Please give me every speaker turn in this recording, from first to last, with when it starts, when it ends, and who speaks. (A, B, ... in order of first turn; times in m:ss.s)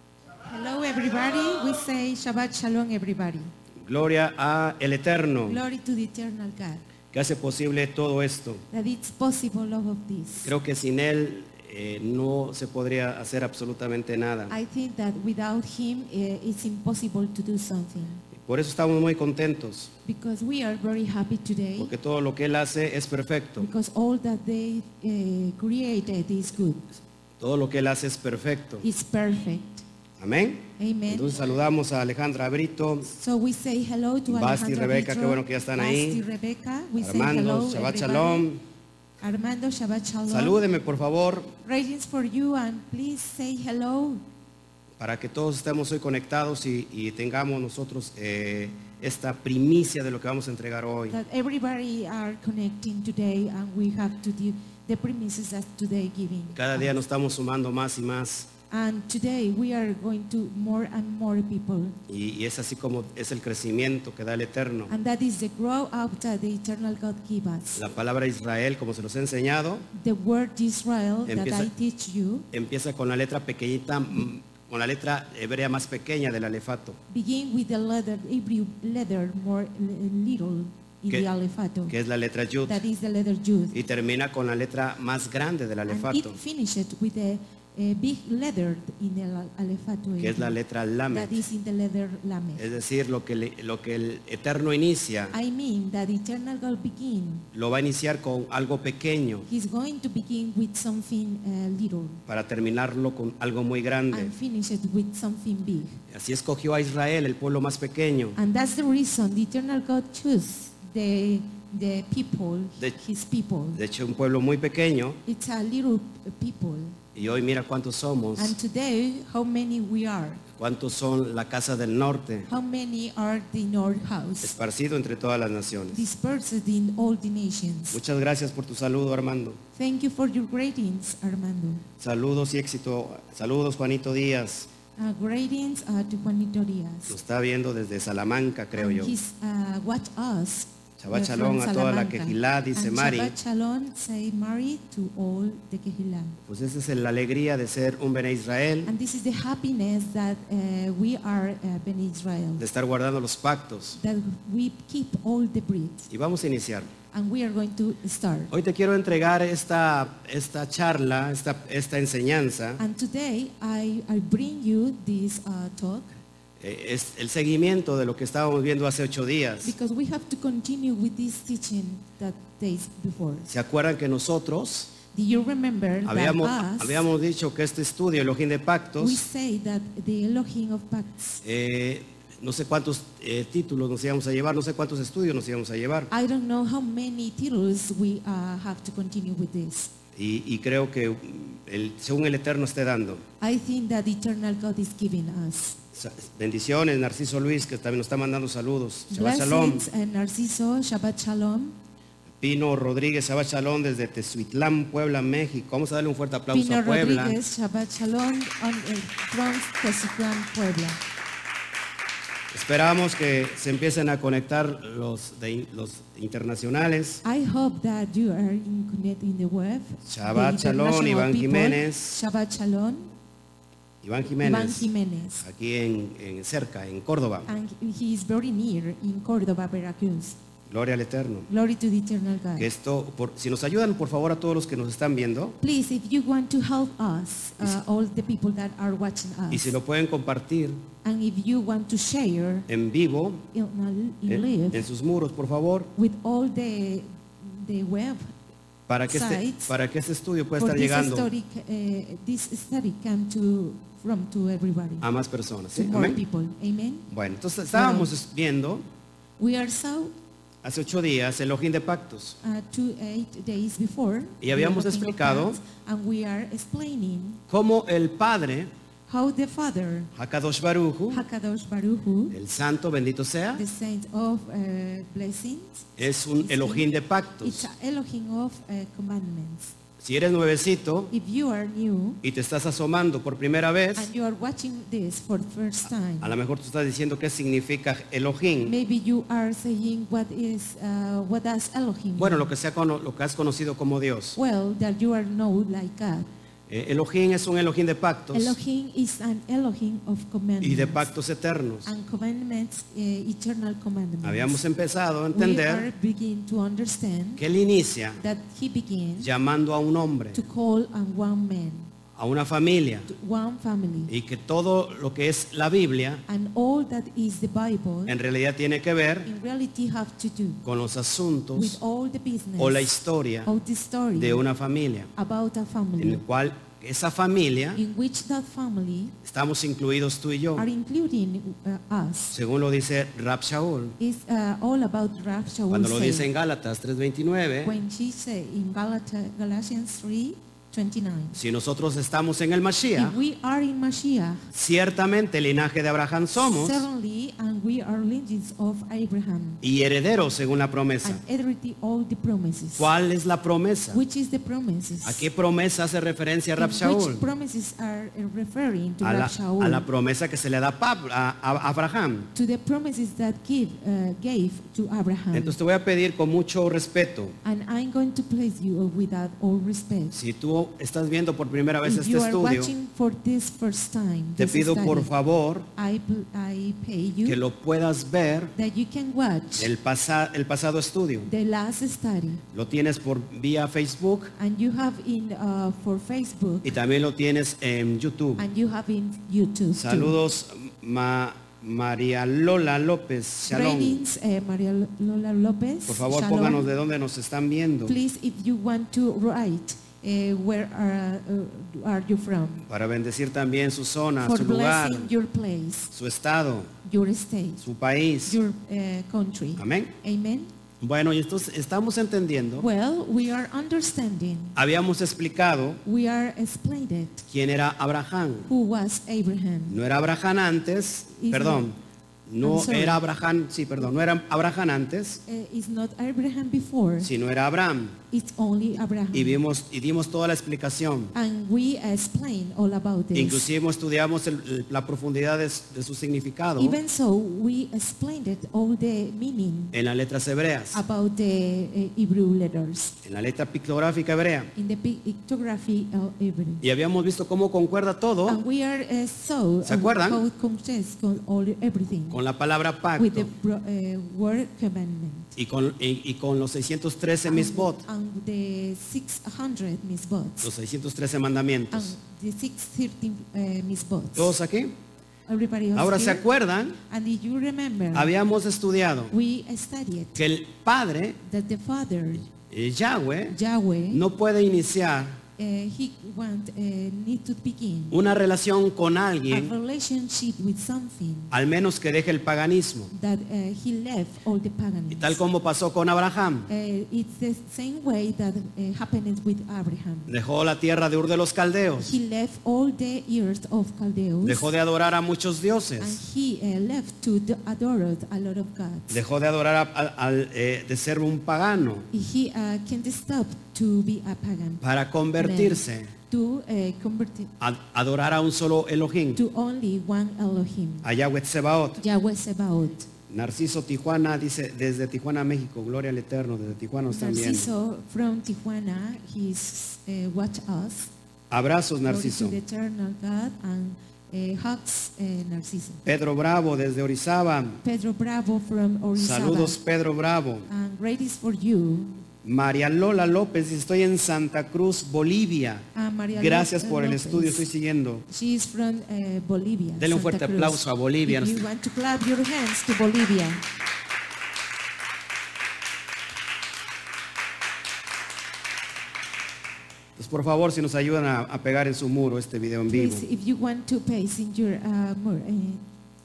0:00.4-0:03.5 A
0:03.8-0:05.6 B
0:05.4-0:06.8 A
0:07.1-0:08.6 B
0:08.7-0:10.5 A
0:10.4-0:14.5 B
0:14.5-0:18.2 A
0:18.4-0:19.9 B
0:20.0-0:21.9 A
0:21.8-0:23.7 B
0:23.6-0:26.8 A
0:27.4-0:28.8 B
0:28.8-0:29.8 A
0:30.2-0:33.1 B
0:30.8-0:31.3 A
0:33.1-0:38.4 A
0:34.3-0:36.2 B
0:37.0-0:38.6 B
0:39.2-0:40.6 A
0:40.3-0:41.5 B
0:41.6-0:44.2 A
0:45.0-0:51.2 B
0:51.1-0:56.9 A
0:56.5-0:58.5 B
0:58.7-1:02.0 A
1:02.1-1:04.9 B
1:04.9-1:07.8 A
1:07.8-1:09.9 B
1:09.9-1:12.4 A
1:11.2-1:11.7 B
1:12.5-1:17.0 B
1:17.1-1:21.9 A
1:21.9-1:22.8 B
1:22.6-1:23.8 A
1:23.7-1:26.4 B
1:25.9-1:30.6 A
1:30.2-1:31.4 B
1:31.1-1:32.7 A
1:32.6-1:35.3 B
1:35.3-1:37.4 A
1:37.5-1:39.5 B
1:39.5-1:42.2 A
1:42.3-1:44.3 B
1:44.1-1:46.0 A
1:46.1-1:48.4 B
1:48.4-1:53.8 A
1:53.7-1:55.2 B
1:55.2-1:57.0 A
1:57.1-1:58.5 B
1:58.4-2:00.4 A
2:00.6-2:02.5 B
2:02.5-2:04.5 A
2:04.4-2:06.0 B
2:05.9-2:08.0 A
2:07.9-2:09.6 B
2:09.8-2:11.8 A
2:12.0-2:14.7 B
2:15.0-2:17.2 A
2:17.1-2:19.1 B
2:18.8-2:26.4 A
2:21.0-2:23.3 B
2:26.5-2:28.9 B
2:28.8-2:32.6 A
2:32.6-2:34.0 B
2:34.0-2:36.1 A
2:36.1-2:36.9 B
2:37.1-2:38.5 A
2:38.5-2:42.8 B
2:42.8-2:46.1 A
2:46.6-2:49.7 B
2:49.6-2:53.5 A
2:53.5-2:54.9 B
2:55.1-2:57.1 A
2:56.0-2:59.2 B
2:59.0-3:01.4 A
3:01.4-3:06.1 B
3:06.1-3:09.9 A
3:10.2-3:13.2 B
3:13.4-3:15.8 A
3:15.9-3:19.8 B
3:19.1-3:21.7 A
3:22.4-3:27.4 B
3:26.5-3:31.0 A
3:32.5-3:37.2 B
3:37.2-3:43.1 A
3:40.0-3:42.2 B
3:44.0-3:44.9 B
3:44.4-3:45.4 A
3:45.4-3:47.5 B
3:47.4-3:50.4 A
3:50.7-3:51.5 B
3:51.5-3:52.7 A
3:52.6-3:55.6 B
3:55.6-3:59.7 A
3:59.5-4:00.8 B
4:01.0-4:02.7 A
4:02.7-4:03.4 B
4:03.5-4:04.8 A
4:04.3-4:05.9 B
4:06.0-4:08.3 A
4:08.9-4:11.3 B
4:09.1-4:09.7 A
4:10.6-4:15.1 A
4:15.0-4:16.2 B
4:15.8-4:17.1 A
4:17.1-4:18.8 B
4:17.7-4:18.1 A
4:19.4-4:20.1 A
4:20.6-4:22.4 B
4:22.4-4:27.4 A
4:24.4-4:25.6 B
4:27.5-4:28.7 B
4:29.1-4:30.1 A
4:30.2-4:31.2 B
4:31.1-4:32.4 A
4:32.3-4:33.6 B
4:33.5-4:36.9 A
4:36.0-4:37.7 B
4:37.4-4:39.7 A
4:40.0-4:41.1 B
4:41.1-4:42.2 A
4:42.2-4:44.1 B
4:43.9-4:46.3 A
4:46.2-4:48.8 B
4:48.6-4:52.5 A
4:52.2-4:54.4 B
4:54.4-4:56.3 A
4:56.7-4:58.6 B
4:58.3-5:01.1 A
5:00.6-5:01.9 B
5:01.8-5:04.6 A
5:04.2-5:05.9 B
5:05.3-5:07.4 A
5:07.4-5:08.2 B
5:08.2-5:09.3 A
5:09.2-5:10.4 B
5:10.3-5:11.9 A
5:12.2-5:13.1 B
5:13.1-5:14.1 A
5:14.1-5:16.2 B
5:16.3-5:18.2 A
5:18.0-5:19.3 B
5:19.2-5:20.6 A
5:20.6-5:21.8 B
5:21.5-5:24.4 A
5:22.6-5:23.5 B
5:24.2-5:25.1 B
5:25.2-5:26.2 A
5:26.0-5:27.8 B
5:27.7-5:29.2 A
5:29.2-5:30.7 B
5:30.6-5:32.4 A
5:32.3-5:34.0 B
5:34.0-5:36.3 A
5:35.7-5:37.8 B
5:37.6-5:41.4 A
5:41.3-5:43.2 B
5:42.9-5:44.4 A
5:44.5-5:46.8 B
5:46.4-5:49.6 A
5:49.6-5:51.2 B
5:51.0-5:52.9 A
5:52.8-5:54.0 B
5:53.9-5:55.3 A
5:55.0-5:57.2 B
5:56.6-5:59.8 A
5:59.0-6:02.3 B
6:02.3-6:05.6 A
6:05.3-6:07.4 B
6:07.4-6:10.2 A
6:10.1-6:12.7 B
6:11.8-6:15.1 A
6:14.4-6:15.7 B
6:15.7-6:17.4 A
6:17.2-6:18.5 B
6:18.5-6:19.7 A
6:19.6-6:21.3 B
6:21.2-6:22.4 A
6:22.5-6:24.3 B
6:24.4-6:26.7 A
6:26.6-6:28.4 B
6:28.4-6:30.1 A
6:29.8-6:34.0 B
6:33.5-6:36.6 A
6:35.9-6:38.0 B
6:37.8-6:42.6 A
6:42.7-6:45.1 B
6:44.2-6:45.9 A
6:45.9-6:46.7 B
6:46.8-6:47.6 A
6:47.6-6:48.4 B
6:48.2-6:50.5 A
6:49.6-6:49.9 B
6:50.8-6:52.7 B
6:52.6-6:54.6 A
6:54.6-6:55.8 B
6:55.8-6:57.2 A
6:57.3-6:58.5 B
6:58.4-6:59.8 A
6:59.7-7:01.8 B
7:01.2-7:01.7 A
7:02.3-7:05.2 B
7:02.4-7:03.0 A
7:05.2-7:07.1 A
7:07.0-7:08.0 B
7:08.1-7:09.4 A
7:09.1-7:11.1 B
7:11.1-7:13.5 A
7:13.1-7:16.8 B
7:16.6-7:19.7 A
7:19.7-7:20.8 B
7:20.7-7:23.0 A
7:23.0-7:24.5 B
7:24.5-7:26.6 A
7:26.6-7:28.4 B
7:28.2-7:32.2 A
7:29.6-7:30.2 B
7:32.1-7:33.3 B
7:33.0-7:35.3 A
7:35.4-7:37.8 B
7:37.3-7:40.5 A
7:40.4-7:41.9 B
7:41.7-7:44.3 A
7:44.2-7:44.7 B
7:45.3-7:46.2 A
7:45.7-7:46.8 B
7:46.9-7:48.1 A
7:47.9-7:49.1 B
7:49.1-7:50.2 A
7:50.2-7:51.2 B
7:51.2-7:52.3 A
7:52.3-7:53.4 B
7:53.3-7:54.0 A
7:53.9-7:55.2 B
7:55.4-7:58.0 A
7:57.9-7:59.5 B
7:59.3-8:01.3 A
8:01.3-8:02.9 B
8:02.9-8:05.2 A
8:04.9-8:06.5 B
8:06.5-8:10.1 A
8:10.1-8:11.9 B
8:11.8-8:14.5 A
8:14.2-8:16.0 B
8:15.8-8:19.0 A
8:18.9-8:21.9 B
8:21.9-8:24.6 A
8:24.6-8:25.9 B
8:25.2-8:27.3 A
8:27.4-8:29.2 B
8:29.1-8:30.9 A
8:30.8-8:31.8 B
8:31.8-8:32.9 A
8:33.1-8:37.5 B
8:36.9-8:40.9 A
8:41.3-8:42.4 B
8:41.8-8:45.8 A
8:45.8-8:47.6 B
8:47.6-8:49.6 A
8:49.0-8:50.5 B
8:50.5-8:52.0 A
8:52.2-8:58.0 B
8:55.7-8:57.5 A
8:58.1-9:03.4 A
8:59.8-9:01.4 B
9:10.0-9:13.0 B
9:12.7-9:15.6 A